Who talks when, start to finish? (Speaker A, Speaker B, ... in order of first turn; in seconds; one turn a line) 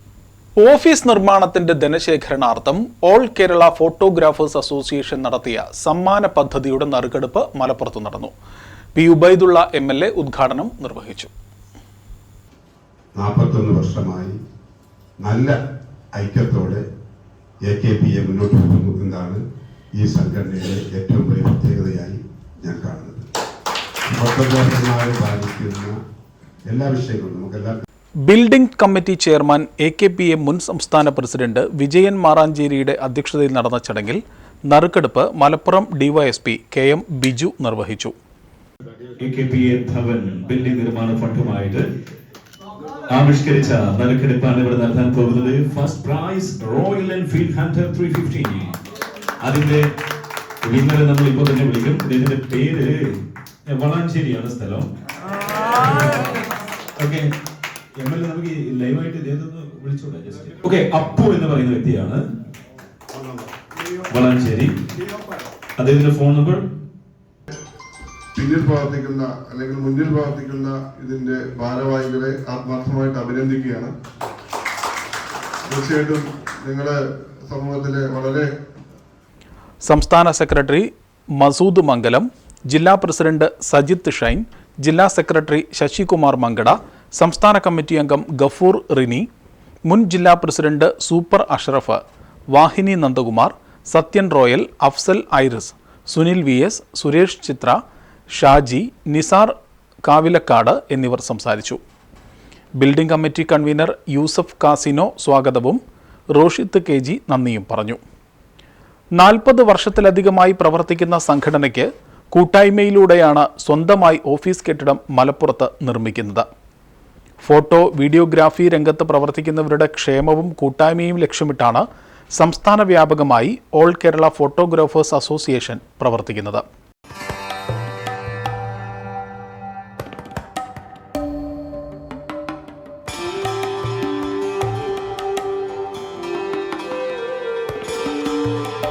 Speaker A: 0.6-8.3
Speaker A: 8.9-11.3
Speaker B: 13.2-14.3
Speaker B: 15.2-15.5
Speaker B: 16.1-16.8
Speaker B: 17.7-19.4
Speaker B: 20.0-23.2
Speaker B: 24.1-25.9
Speaker B: 26.7-27.8
Speaker A: 28.2-38.1
Speaker C: 39.2-41.9
Speaker C: 43.1-48.8
Speaker C: 49.4-49.9
Speaker C: 50.6-53.0
Speaker C: 53.7-54.9
Speaker C: 55.7-56.4
Speaker C: 57.0-57.3
Speaker C: 58.0-62.2
Speaker C: 64.1-64.7
Speaker C: 65.8-66.6
Speaker D: 68.3-73.9
Speaker D: 75.7-78.5
Speaker A: 79.8-89.2
Speaker A: 89.8-92.0
Speaker A: 92.5-97.8
Speaker A: 98.3-99.5
Speaker A: 100.0-101.8
Speaker A: 102.8-105.8
Speaker A: 106.3-108.0
Speaker A: 109.2-116.5
Speaker A: 117.4-126.6